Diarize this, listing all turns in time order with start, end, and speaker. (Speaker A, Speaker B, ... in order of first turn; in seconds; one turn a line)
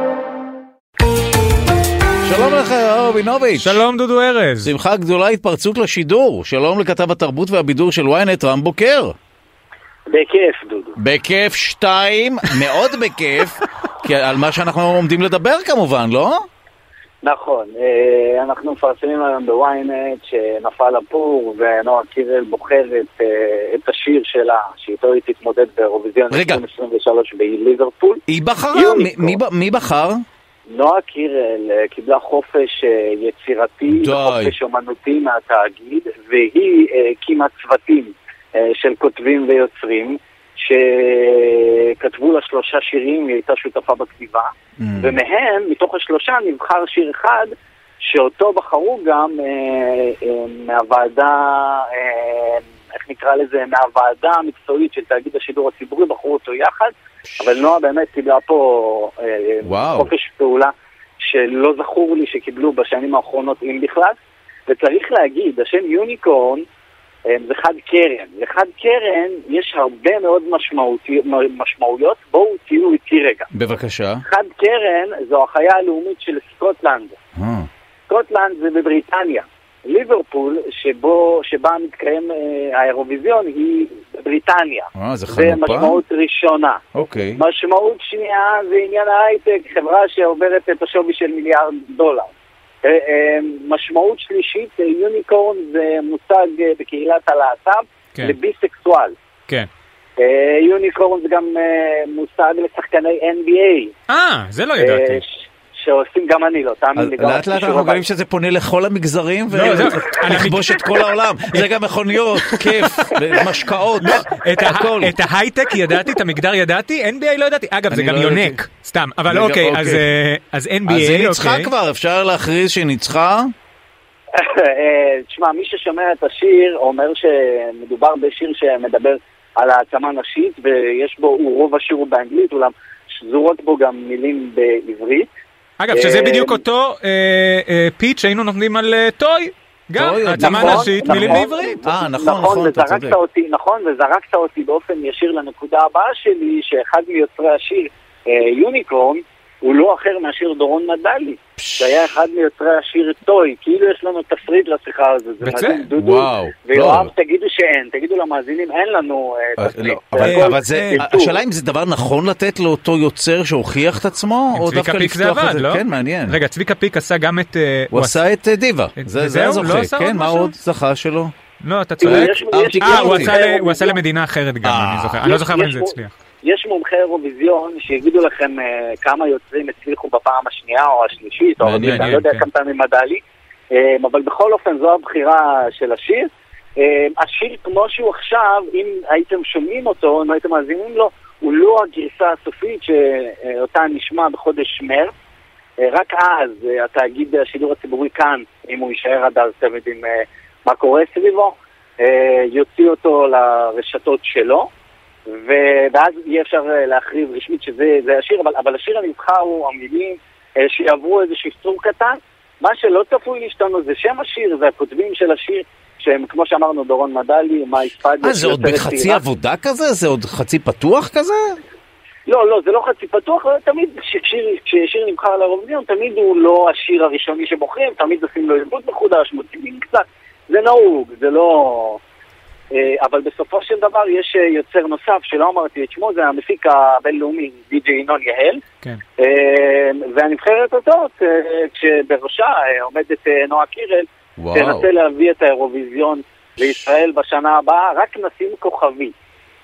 Speaker A: 2.2-3.8
Speaker B: 3.6-4.7
Speaker A: 4.6-9.1
Speaker C: 10.1-11.0
Speaker A: 11.0-16.4
Speaker C: 17.2-28.2
Speaker A: 26.3-26.6
Speaker A: 28.3-30.2
Speaker C: 28.7-29.4
Speaker C: 30.7-64.2
Speaker A: 33.9-34.5
Speaker A: 44.8-45.2
Speaker A: 59.6-60.1
Speaker C: 64.7-66.6
Speaker C: 67.3-73.5
Speaker A: 73.5-74.2
Speaker C: 74.2-77.2
Speaker A: 77.3-77.7
Speaker C: 78.1-86.8
Speaker A: 84.9-86.0
Speaker A: 86.9-87.4
Speaker C: 87.3-92.3
Speaker C: 92.8-99.1
Speaker C: 100.2-103.9
Speaker B: 104.1-105.2
Speaker C: 104.8-108.0
Speaker A: 107.0-115.1
Speaker B: 109.5-110.8
Speaker B: 112.4-113.1
Speaker B: 114.0-121.7
Speaker A: 117.9-118.6
Speaker A: 119.3-120.0
Speaker A: 120.9-123.5
Speaker C: 124.3-135.3
Speaker B: 135.8-141.8
Speaker C: 135.9-136.6
Speaker A: 140.0-143.2
Speaker C: 140.4-161.4
Speaker A: 151.6-152.1
Speaker B: 155.4-155.9
Speaker A: 156.0-157.1
Speaker A: 159.6-166.4
Speaker B: 160.2-161.0
Speaker B: 164.5-168.2
Speaker A: 167.9-171.3
Speaker B: 169.0-170.5
Speaker B: 171.6-176.1
Speaker C: 172.0-174.0
Speaker A: 172.0-173.4
Speaker A: 174.6-175.2
Speaker C: 175.2-195.1
Speaker A: 181.6-182.2
Speaker B: 181.8-182.4
Speaker C: 195.8-204.7
Speaker C: 205.3-219.2
Speaker A: 218.2-221.6
Speaker C: 222.3-232.0
Speaker C: 232.7-238.6
Speaker C: 239.2-249.1
Speaker A: 244.4-244.9